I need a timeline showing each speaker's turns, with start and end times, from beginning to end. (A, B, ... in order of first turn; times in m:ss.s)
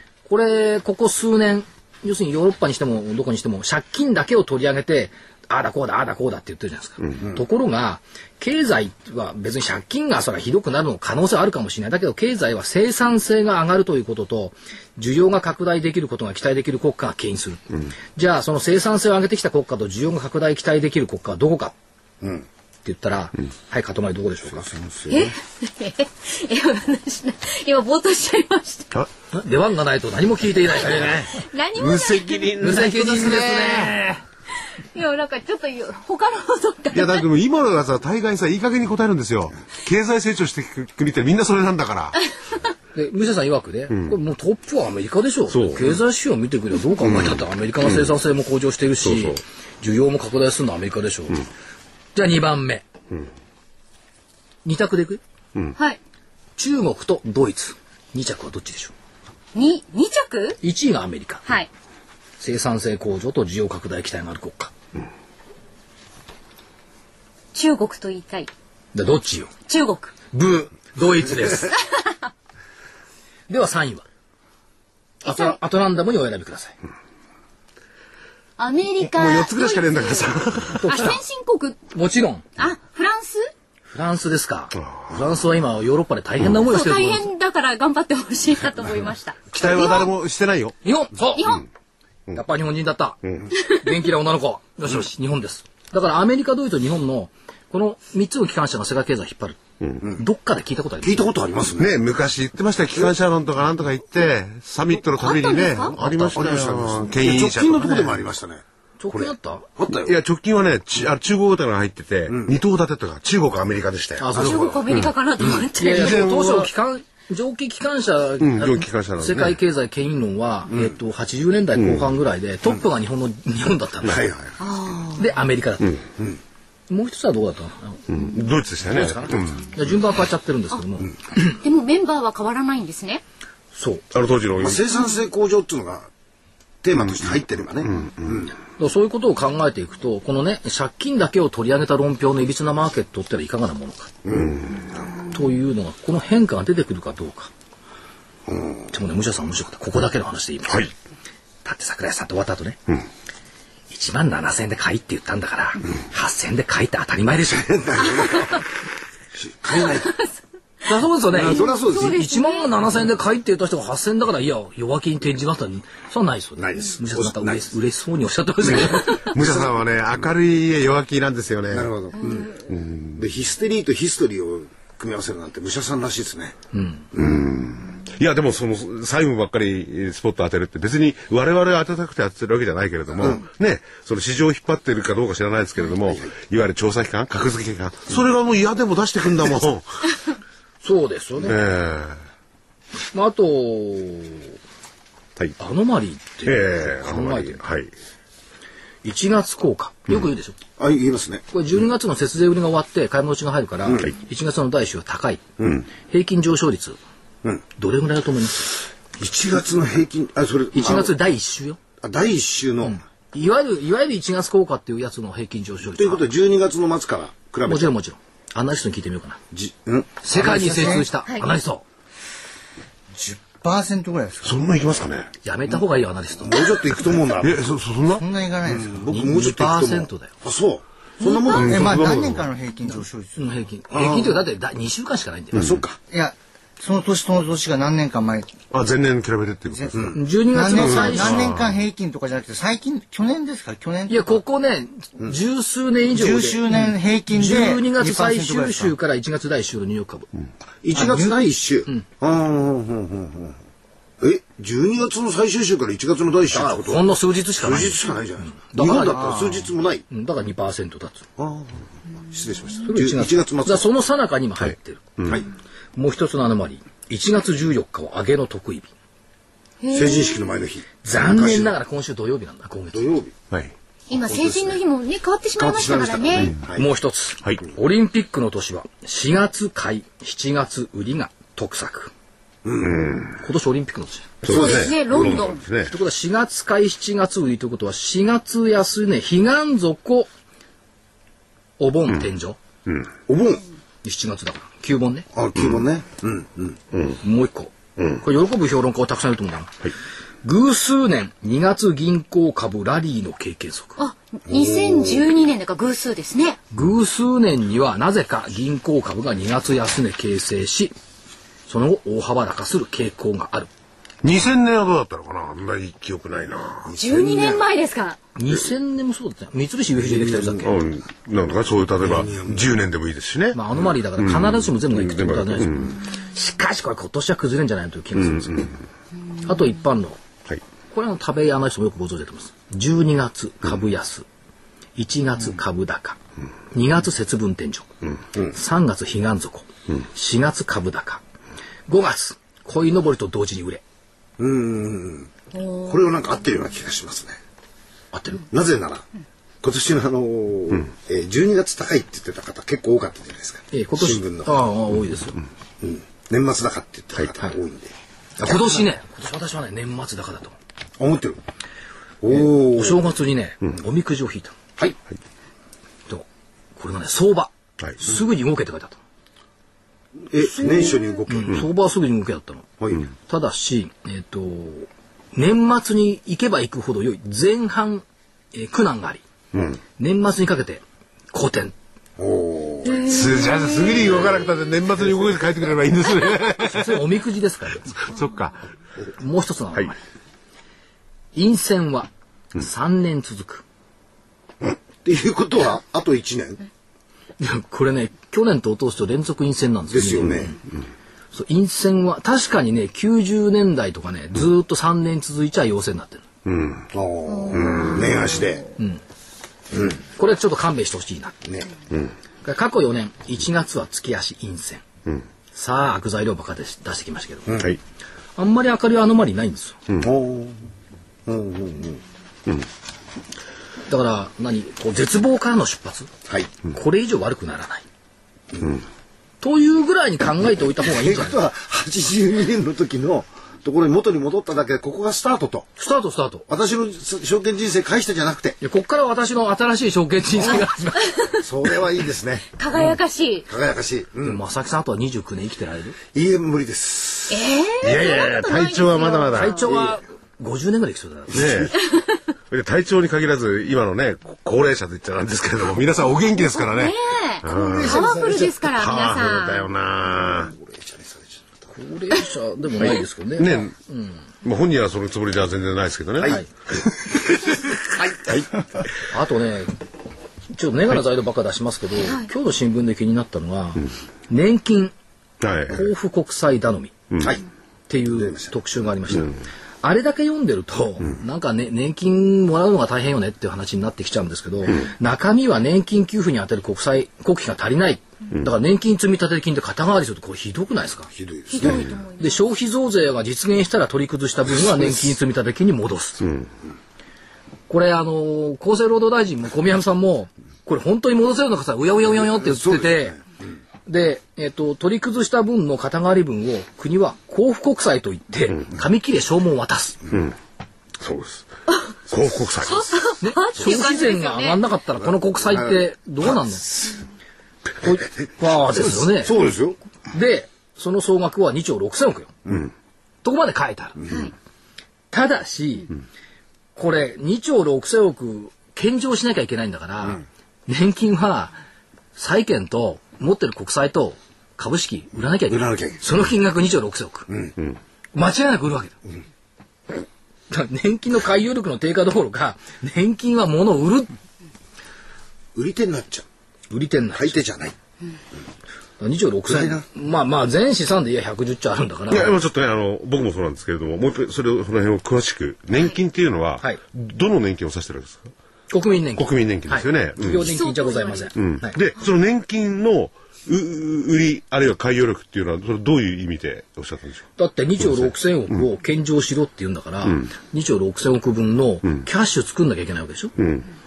0:00.2-0:21.7 A
0:22.8-0:24.7 A
0:24.5-0:25.3 B
0:25.1-0:28.9 C
0:29.3-0:31.4 A
0:31.3-0:34.0 C
0:32.0-0:33.5 D
0:32.6-0:34.2 A
0:34.9-0:37.2 C
0:36.9-0:42.2 D
0:42.9-0:51.5 A
0:45.5-0:45.9 D
0:47.0-0:48.1 D
0:49.0-0:49.4 D
0:52.1-0:52.9 A
0:54.6-0:55.2 A
0:56.6-0:58.9 A
0:59.5-1:00.6 C
1:00.6-1:01.4 A
1:02.4-1:04.7 A
1:07.5-1:08.5 C
1:08.9-1:09.5 A
1:09.7-1:10.1 C
1:10.3-1:11.8 A
1:13.5-1:14.0 A
1:15.2-1:16.8 A
1:15.2-1:15.6 C
1:18.6-1:21.8 C
1:19.0-1:20.9 D
1:20.7-1:21.2 A
1:21.9-1:22.4 A
1:22.6-1:23.5 C
1:23.9-1:27.3 A
1:26.7-1:30.1 C
1:29.5-1:30.8 D
1:30.8-1:31.6 A
1:31.3-1:31.6 C
1:32.3-1:39.6 A
1:40.2-1:41.3 A
1:41.0-1:41.9 B
1:41.8-1:48.2 D
1:45.2-1:45.9 C
1:45.9-1:50.2 B
1:49.0-1:49.7 A
1:49.9-1:54.3 D
1:52.3-1:52.6 B
1:54.2-1:54.7 A
1:54.3-1:55.7 B
1:54.3-1:56.2 C
1:55.8-2:04.2 A
1:55.9-1:56.7 D
1:58.4-1:59.6 D
2:01.8-2:02.0 D
2:04.1-2:04.4 D
2:04.6-2:05.3 C
2:05.2-2:06.0 A
2:06.9-2:08.1 A
2:08.1-2:09.7 D
2:08.8-2:11.6 A
2:11.4-2:13.2 C
2:13.7-2:14.0 A
2:14.1-2:14.8 D
2:14.6-2:16.1 B
2:16.8-2:18.5 B
2:18.8-2:24.1 A
2:24.3-2:25.2 B
2:25.3-2:27.5 A
2:28.9-2:30.9 A
2:31.6-2:32.9 A
2:33.9-2:38.1 A
2:37.8-2:38.6 B
2:38.1-2:38.6 C
2:39.4-2:40.1 B
2:39.7-2:40.4 C
2:40.8-2:49.2 A
2:41.3-2:42.2 B
2:41.5-2:42.7 C
2:46.6-2:47.6 B
2:48.7-2:51.9 D
2:49.3-2:49.8 B
2:51.7-2:52.6 B
2:52.7-2:53.2 D
2:53.2-2:56.6 B
2:56.7-2:57.1 A
2:57.2-2:57.4 B
2:57.2-3:10.0 D
3:10.8-3:11.6 A
3:11.4-3:12.2 D
3:13.1-3:14.6 A
3:15.6-3:17.6 A
3:16.4-3:17.9 D
3:19.0-3:20.6 A
3:20.8-3:21.4 B
3:21.5-3:27.0 A
3:27.8-3:28.8 A
3:29.2-3:31.1 B
3:30.7-3:31.8 A
3:32.0-3:33.0 B
3:32.8-3:36.3 A
3:36.0-3:37.9 B
3:37.6-3:39.4 A
3:39.5-3:40.9 B
3:40.2-3:41.8 A
3:40.3-3:41.1 E
3:43.1-3:44.6 E
3:44.4-3:45.3 D
3:45.4-3:46.7 A
3:46.4-3:47.7 B
3:47.4-3:48.2 D
3:48.1-3:49.0 E
3:48.6-3:51.9 B
3:49.1-3:50.3 A
3:51.2-3:51.6 C
3:51.5-3:52.5 D
3:51.6-3:53.5 E
3:53.4-3:55.7 A
3:53.9-3:54.4 B
3:55.5-3:56.0 B
3:56.1-3:58.6 E
3:58.7-4:00.0 D
3:59.7-4:04.3 E
3:59.9-4:00.2 B
4:00.1-4:01.5 A
4:00.7-4:01.7 D
4:04.1-4:10.3 A
4:06.1-4:08.9 E
4:10.8-4:13.6 B
4:10.9-4:11.4 E
4:14.2-4:20.0 B
4:16.5-4:19.4 A
4:19.0-4:19.7 E
4:20.1-4:21.2 A
4:21.4-4:23.8 B
4:22.8-4:25.1 A
4:25.2-4:25.4 D
4:26.0-4:28.9 A
4:29.8-4:30.5 C
4:29.9-4:31.7 B
4:31.0-4:33.1 A
4:32.9-4:33.4 B
4:34.1-4:36.5 C
4:34.2-4:34.8 B
4:35.6-4:36.9 B
4:36.7-4:42.1 A
4:42.6-4:43.1 B
4:43.4-4:44.7 A
4:44.4-4:45.6 C
4:44.4-4:45.9 D
4:44.5-4:45.4 B
4:45.9-4:50.3 A
4:51.8-4:52.6 A
4:53.2-4:53.6 B
4:54.0-4:55.3 A
4:55.3-4:56.8 B
4:57.2-4:59.9 A
5:00.4-5:04.0 A
5:04.0-5:06.6 C
5:04.5-5:05.2 B
5:06.7-5:10.9 A
5:11.7-5:13.7 A
5:14.2-5:16.9 D
5:16.9-5:17.6 B
5:17.0-5:18.2 C
5:18.4-5:20.7 A
5:20.0-5:20.8 B
5:20.6-5:23.6 D
5:22.0-5:22.7 B
5:23.5-5:28.7 A
5:24.2-5:25.9 D
5:28.3-5:28.6 D
5:29.4-5:30.2 A
5:30.9-5:34.2 A
5:35.0-5:36.2 A
5:36.7-5:37.9 A
5:38.5-5:41.2 A
5:41.9-5:43.8 A
5:44.4-5:47.4 B
5:45.6-5:45.9 C
5:48.1-5:48.4 A
5:48.5-5:49.1 B
5:49.6-5:54.6 B
5:53.7-5:55.4 A
5:55.8-5:58.8 B
5:58.4-6:00.5 A
6:01.0-6:01.4 B
6:02.2-6:03.0 B
6:02.3-6:04.5 A
6:06.8-6:09.0 A
6:10.3-6:11.6 B
6:10.5-6:12.7 A
6:12.8-6:13.1 B
6:13.3-6:19.2 A
6:20.0-6:21.7 A
6:22.2-6:23.4 B
6:23.0-6:27.0 D
6:24.1-6:24.4 B
6:26.6-6:28.0 A
6:28.0-6:28.6 D
6:29.2-6:30.0 A
6:31.3-6:33.6 A
6:34.6-6:36.6 B
6:37.4-6:40.6 A
6:39.9-6:40.6 B
6:41.3-6:46.2 A
6:46.4-6:46.8 D
6:46.9-6:48.7 B
6:49.9-6:51.4 A
6:51.4-6:51.7 B
6:52.4-6:54.8 A
6:55.5-6:57.6 A
6:58.4-6:59.8 A
7:00.0-7:00.6 B
7:01.3-7:02.0 B
7:03.9-7:07.8 A
7:09.4-7:11.4 A
7:10.8-7:15.7 B
7:15.8-7:16.5 A
7:16.5-7:18.6 B
7:18.6-7:21.2 A
7:21.0-7:21.4 C
7:21.4-7:22.5 B
7:22.6-7:23.5 C
7:23.5-7:24.4 B
7:24.2-7:26.0 A
7:26.1-7:27.4 B
7:27.3-7:29.7 C
7:27.8-7:29.6 D
7:29.3-7:31.7 A
7:29.7-7:30.0 B
7:31.3-7:31.8 D
7:32.5-7:38.0 D
7:36.5-7:39.7 C
7:37.5-7:38.6 B
7:38.6-7:40.5 D
7:40.0-7:41.6 B
7:41.7-7:44.2 A
7:43.4-7:43.7 D
7:44.4-7:46.9 D
7:46.2-7:46.5 A
7:47.9-7:48.4 B
7:49.1-7:49.8 A
7:50.5-7:54.9 A
7:55.4-7:55.8 D
7:55.7-7:57.0 A
7:57.1-7:57.4 D
7:57.9-8:16.2 A
7:58.2-7:58.5 B
8:11.1-8:12.0 B
8:11.5-8:12.4 C
8:17.7-8:23.2 A
8:22.4-8:23.1 B
8:23.9-8:30.0 A
8:31.0-8:31.4 D
8:32.1-8:33.1 D
8:32.6-8:34.6 C
8:33.2-8:36.7 A
8:37.8-8:39.3 A
8:38.6-8:39.8 B
8:40.1-8:42.3 A
8:43.2-8:44.0 A
8:44.0-8:44.3 B
8:44.1-8:44.3 C
8:45.1-8:45.9 A
8:46.8-8:51.6 A
8:52.2-8:57.3 A
8:55.5-8:56.0 B
8:57.3-8:57.5 B
8:58.1-8:59.0 A
9:00.5-9:04.1 A
9:05.5-9:06.2 B
9:06.7-9:07.4 A
9:07.1-9:07.7 B
9:09.0-9:12.3 A
9:09.5-9:09.8 B
9:12.1-9:18.3 D
9:18.7-9:21.8 A
9:19.2-9:20.5 D
9:20.4-9:21.3 C
9:21.4-9:27.2 D
9:27.4-9:33.3 A
9:33.4-9:33.6 D